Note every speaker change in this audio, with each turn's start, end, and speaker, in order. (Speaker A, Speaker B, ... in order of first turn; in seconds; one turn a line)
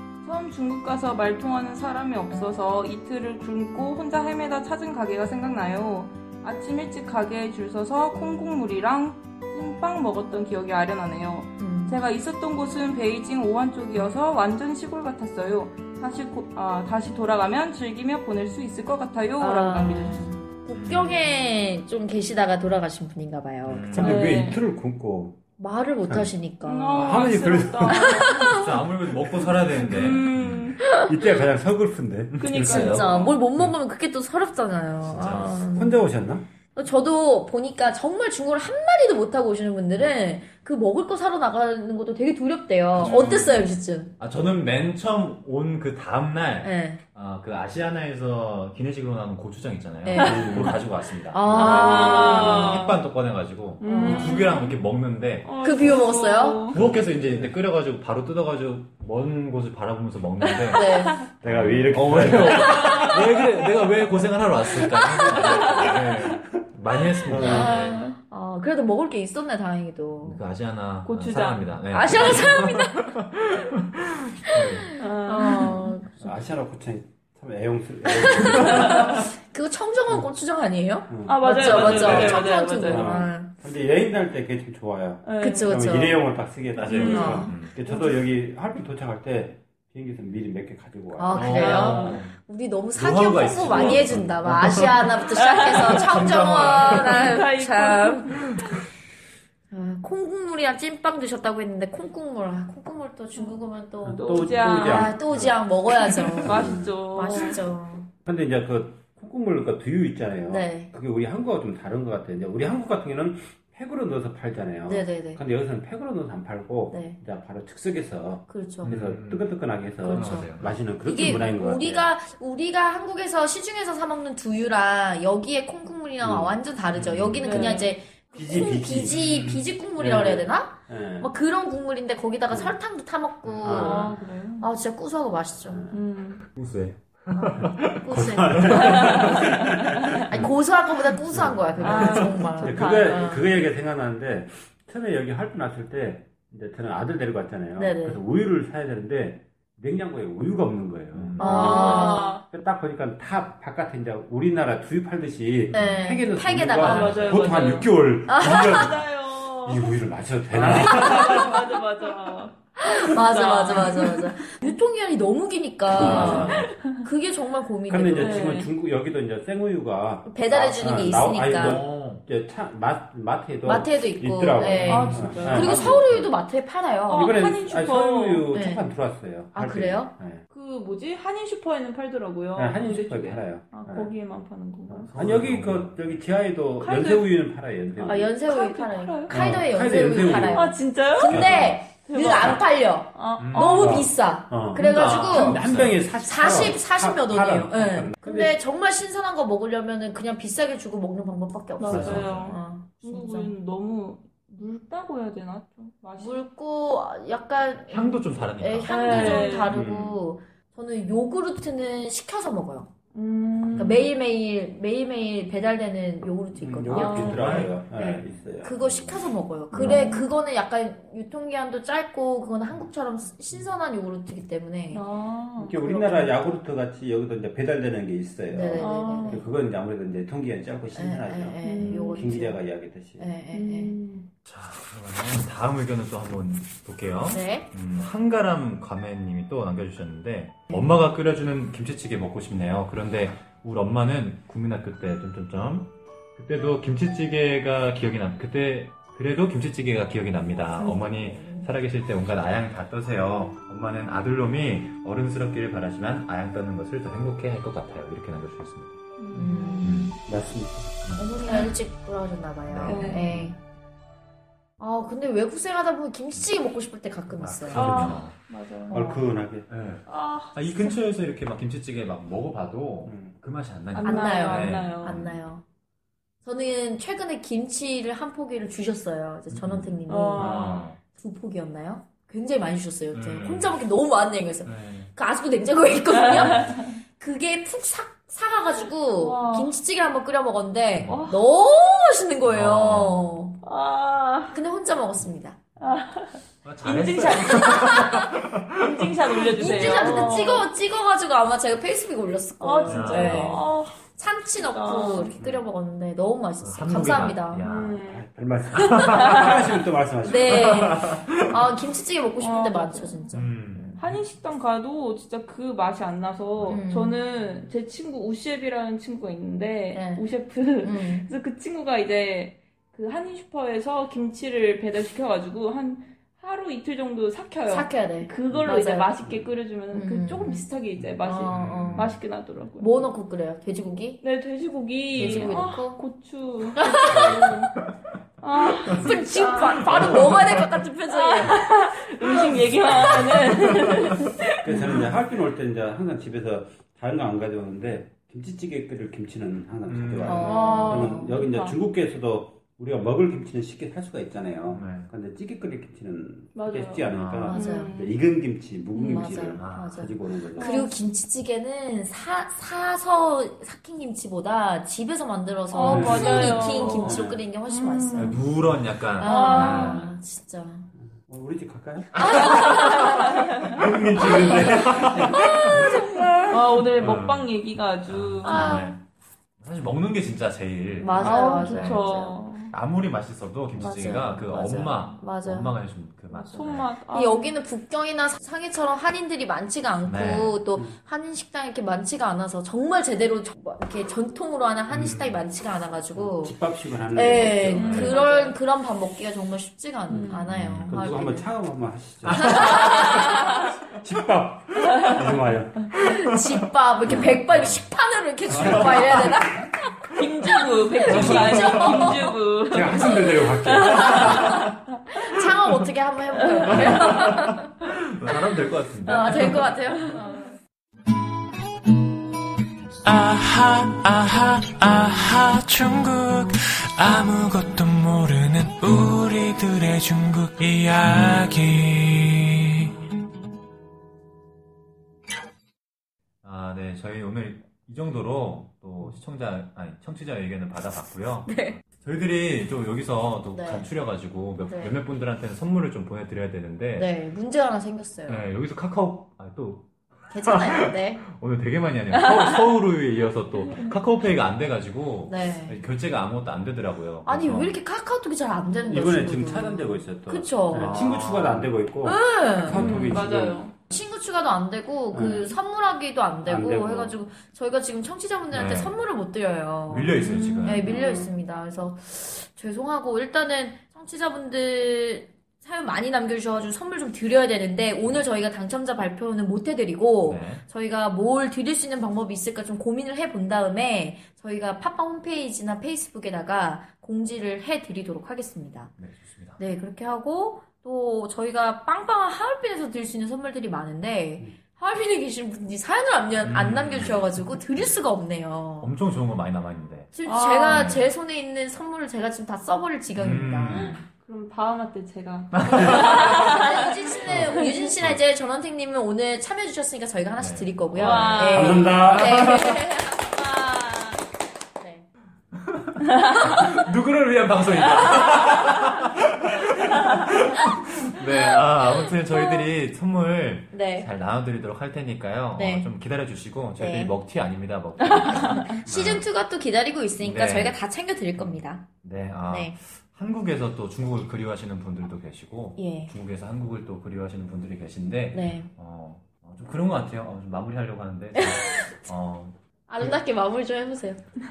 Speaker A: 0.2-20.4
Speaker B: 11.6-12.0
Speaker B: 19.4-24.0
Speaker C: 20.1-21.3
Speaker C: 23.6-24.3
Speaker D: 23.9-25.4
Speaker A: 24.0-24.6
Speaker B: 25.6-27.2
Speaker A: 26.6-28.6
Speaker D: 26.9-28.2
Speaker B: 27.9-28.7
Speaker C: 28.3-30.8
Speaker A: 29.7-30.9
Speaker B: 30.8-31.1
Speaker D: 31.0-33.4
Speaker A: 32.4-33.3
Speaker C: 32.5-33.3
Speaker B: 32.5-36.0
Speaker C: 35.0-35.6
Speaker D: 35.1-36.4
Speaker B: 36.7-44.1
Speaker C: 43.0-43.6
Speaker A: 43.0-43.5
Speaker C: 44.2-55.6
Speaker B: 46.6-47.0
Speaker B: 50.0-50.8
Speaker D: 50.2-50.8
Speaker B: 51.3-52.9
Speaker D: 51.5-51.8
Speaker A: 51.5-53.0
Speaker A: 53.8-54.7
Speaker B: 53.8-54.5
Speaker A: 55.4-56.8
Speaker B: 55.6-56.7
Speaker C: 56.7-67.9
Speaker D: 56.7-57.5
Speaker A: 60.5-61.2
Speaker B: 60.7-61.3
Speaker D: 61.4-63.1
Speaker B: 62.7-63.1
Speaker A: 65.3-65.9
Speaker D: 67.2-67.8
Speaker A: 67.4-68.2
Speaker B: 67.4-70.4
Speaker C: 70.2-74.9
Speaker A: 71.0-71.7
Speaker B: 71.9-73.1
Speaker B: 74.5-76.2
Speaker A: 75.0-75.9
Speaker D: 76.2-79.3
Speaker B: 78.1-83.5
Speaker D: 81.1-92.0
Speaker A: 81.2-83.2
Speaker C: 81.9-82.4
Speaker A: 85.2-85.7
Speaker B: 85.4-86.2
Speaker C: 86.7-87.8
Speaker A: 86.8-87.5
Speaker B: 87.1-88.2
Speaker B: 91.2-98.4
Speaker C: 91.3-92.3
Speaker A: 91.5-92.2
Speaker C: 92.9-97.3
Speaker D: 93.7-94.2
Speaker A: 95.4-98.8
Speaker B: 99.7-108.1
Speaker D: 104.0-105.6
Speaker A: 104.1-105.2
Speaker D: 106.2-107.4
Speaker A: 106.4-107.6
Speaker D: 108.2-122.1
Speaker B: 110.5-110.9
Speaker B: 114.8-115.4
Speaker B: 116.9-117.2
Speaker B: 118.5-118.9
Speaker C: 118.8-121.3
Speaker B: 120.0-135.8
Speaker D: 126.2-126.6
Speaker C: 126.9-127.5
Speaker D: 127.4-131.3
Speaker A: 127.4-127.9
Speaker C: 129.1-129.6
Speaker D: 132.5-132.7
Speaker D: 133.4-134.2
Speaker C: 133.6-133.9
Speaker A: 133.7-134.7
Speaker D: 135.6-136.0
Speaker A: 135.9-136.4
Speaker C: 136.5-139.6
Speaker B: 137.3-139.4
Speaker D: 137.6-140.5
Speaker B: 140.2-143.4
Speaker D: 141.1-161.6
Speaker A: 141.8-143.4
Speaker C: 141.8-142.2
Speaker B: 147.8-148.2
Speaker C: 151.1-151.8
Speaker B: 151.4-152.4
Speaker A: 151.4-152.4
Speaker C: 155.7-156.0
Speaker B: 155.7-157.5
Speaker A: 156.8-160.0
Speaker C: 156.9-157.4
Speaker B: 158.2-159.0
Speaker C: 160.5-161.3
Speaker A: 160.6-164.7
Speaker B: 161.0-161.4
Speaker B: 162.8-168.6
Speaker C: 165.9-166.8
Speaker D: 165.9-166.6
Speaker A: 166.0-167.0
Speaker D: 167.9-176.3
Speaker A: 168.1-168.7
Speaker B: 170.2-171.8
Speaker C: 171.4-172.2
Speaker B: 173.6-177.4
Speaker C: 174.6-176.0
Speaker A: 174.7-175.9
Speaker A: 177.1-178.5
Speaker D: 177.1-180.4
Speaker B: 178.5-178.9
Speaker B: 179.5-180.1
Speaker A: 180.5-185.1
Speaker D: 182.6-184.1
Speaker D: 184.9-188.3
Speaker C: 185.0-186.2
Speaker A: 186.8-187.4
Speaker B: 188.0-195.6
Speaker A: 188.4-189.6
Speaker D: 189.3-192.5
Speaker A: 190.5-194.0
Speaker C: 193.4-194.0
Speaker D: 193.6-198.6
Speaker C: 194.7-196.7
Speaker B: 196.2-203.5
Speaker A: 201.8-206.4
Speaker D: 201.9-202.3
Speaker C: 201.9-202.6
Speaker B: 206.2-212.9
Speaker C: 207.9-209.6
Speaker A: 208.9-209.7
Speaker D: 209.7-210.2
Speaker A: 213.1-214.1
Speaker B: 213.8-225.0
Speaker D: 216.5-220.1
Speaker A: 216.9-217.7
Speaker C: 217.0-217.8
Speaker A: 219.8-220.2
Speaker A: 224.9-225.9
Speaker D: 225.6-233.3
Speaker B: 225.8-226.3
Speaker B: 228.5-229.4
Speaker A: 228.8-229.5
Speaker B: 230.9-232.6
Speaker A: 231.6-232.3
Speaker B: 233.2-233.9
Speaker A: 233.5-234.3
Speaker C: 234.4-260.1
Speaker B: 237.3-237.7
Speaker B: 250.8-251.7
Speaker A: 259.2-260.1
Speaker B: 259.3-260.1
Speaker D: 260.2-261.0
Speaker B: 261.2-263.6
Speaker C: 262.7-263.5
Speaker A: 262.8-263.2
Speaker B: 264.8-268.1
Speaker C: 267.3-268.4
Speaker A: 267.7-268.9
Speaker B: 268.9-269.3
Speaker D: 268.9-269.7
Speaker C: 269.7-275.4
Speaker A: 270.1-271.0
Speaker D: 273.0-273.4
Speaker A: 273.9-275.2
Speaker B: 274.0-275.6
Speaker B: 276.4-293.6
Speaker C: 279.5-281.0
Speaker A: 280.1-280.9
Speaker C: 283.1-283.8
Speaker C: 284.6-285.1
Speaker A: 286.1-286.9
Speaker C: 286.3-286.7
Speaker A: 289.2-289.7
Speaker C: 290.9-291.3
Speaker A: 291.1-291.4
Speaker C: 292.4-293.4
Speaker A: 293.6-294.6
Speaker B: 294.5-295.6
Speaker A: 295.8-300.7
Speaker C: 296.6-300.4
Speaker B: 297.5-298.3
Speaker B: 299.6-307.6
Speaker A: 302.6-304.0
Speaker C: 302.8-303.7
Speaker A: 304.7-305.3
Speaker D: 305.4-305.6
Speaker C: 306.6-308.0
Speaker A: 307.6-308.2
Speaker D: 308.0-311.1
Speaker C: 308.7-309.5
Speaker A: 309.0-309.6
Speaker B: 310.2-314.0
Speaker C: 310.3-311.6
Speaker A: 312.4-313.2
Speaker C: 313.3-314.2
Speaker A: 314.0-333.1
Speaker C: 316.6-316.8
Speaker B: 316.6-317.2
Speaker B: 319.9-320.2
Speaker B: 320.8-321.3
Speaker B: 327.7-329.1
Speaker B: 329.9-330.7
Speaker B: 331.2-332.2
Speaker C: 331.4-332.2
Speaker B: 332.8-334.2
Speaker A: 334.2-337.8
Speaker C: 335.1-335.7
Speaker B: 335.1-336.0
Speaker B: 336.8-337.5
Speaker A: 338.4-340.4
Speaker B: 338.9-342.5
Speaker C: 339.9-340.6
Speaker A: 341.1-345.0
Speaker C: 343.1-343.7
Speaker D: 344.6-360.8
Speaker C: 349.8-350.8
Speaker B: 350.2-351.4
Speaker A: 350.4-351.8
Speaker C: 354.7-355.1
Speaker A: 356.5-358.2
Speaker C: 357.1-357.6
Speaker B: 357.5-357.9
Speaker A: 358.9-359.3
Speaker B: 359.0-368.4
Speaker C: 359.5-360.1
Speaker A: 360.6-360.9
Speaker A: 365.7-368.4
Speaker D: 365.9-367.4
Speaker C: 368.1-370.1
Speaker B: 369.2-370.9
Speaker A: 369.2-370.1
Speaker D: 371.3-376.0
Speaker B: 372.2-373.4
Speaker C: 373.8-376.1
Speaker B: 374.2-374.7
Speaker B: 375.3-376.6
Speaker A: 376.5-378.9
Speaker C: 376.9-379.0
Speaker B: 378.4-378.9
Speaker C: 379.6-386.9
Speaker B: 381.0-382.4
Speaker A: 381.2-382.7
Speaker B: 383.8-385.7
Speaker A: 386.3-387.5
Speaker B: 387.1-396.6
Speaker C: 390.0-390.6
Speaker C: 394.9-395.4
Speaker D: 396.1-398.3
Speaker B: 397.1-401.5
Speaker A: 397.7-398.6
Speaker C: 397.8-398.2
Speaker A: 400.1-400.4
Speaker D: 400.1-406.0
Speaker C: 400.5-401.1
Speaker C: 402.2-403.2
Speaker B: 402.3-403.7
Speaker B: 405.9-412.4
Speaker D: 407.1-407.4
Speaker C: 407.1-407.8
Speaker C: 408.5-409.4
Speaker D: 408.5-409.4
Speaker A: 410.1-414.6
Speaker D: 411.1-411.6
Speaker C: 411.2-412.0
Speaker D: 412.7-414.7
Speaker B: 412.9-417.7
Speaker A: 416.5-417.0
Speaker C: 416.7-419.7
Speaker B: 419.1-420.5
Speaker A: 419.1-419.6
Speaker A: 420.2-420.5
Speaker E: 423.0-432.9
Speaker C: 436.4-447.1
Speaker B: 441.4-441.8
Speaker B: 443.5-443.9
Speaker B: 444.6-445.0
Speaker B: 447.0-448.4
Speaker C: 448.3-457.8
Speaker B: 450.3-451.2
Speaker B: 455.3-455.8
Speaker B: 457.2-461.0
Speaker D: 458.9-463.6
Speaker C: 460.7-461.8
Speaker B: 462.0-463.0
Speaker A: 462.7-463.7
Speaker C: 462.8-463.2
Speaker B: 463.9-488.9
Speaker D: 465.1-465.5
Speaker D: 466.4-467.1
Speaker C: 468.5-469.0
Speaker C: 469.9-470.9
Speaker A: 470.2-470.8
Speaker D: 470.7-471.3
Speaker C: 480.2-480.6
Speaker C: 489.0-489.6
Speaker B: 489.6-498.9
Speaker C: 496.4-498.0
Speaker C: 498.8-500.1
Speaker B: 500.1-503.8
Speaker A: 500.2-500.9
Speaker C: 500.6-501.1
Speaker C: 503.1-504.1
Speaker A: 503.7-507.9
Speaker C: 505.6-506.6
Speaker B: 505.8-513.5
Speaker C: 507.2-508.2
Speaker C: 510.4-511.5
Speaker A: 510.9-512.0
Speaker D: 511.4-512.7
Speaker C: 512.1-512.8
Speaker A: 513.2-514.2
Speaker B: 514.8-515.1
Speaker C: 515.5-529.2
Speaker B: 516.4-516.8
Speaker B: 521.2-522.6
Speaker B: 523.7-524.1
Speaker B: 525.5-525.9
Speaker B: 526.8-527.2
Speaker A: 528.2-528.7
Speaker B: 528.2-531.9
Speaker C: 530.2-530.8
Speaker C: 531.4-543.1
Speaker B: 532.5-532.7
Speaker B: 535.8-536.1
Speaker B: 538.3-538.7
Speaker B: 541.3-542.0
Speaker B: 542.9-544.2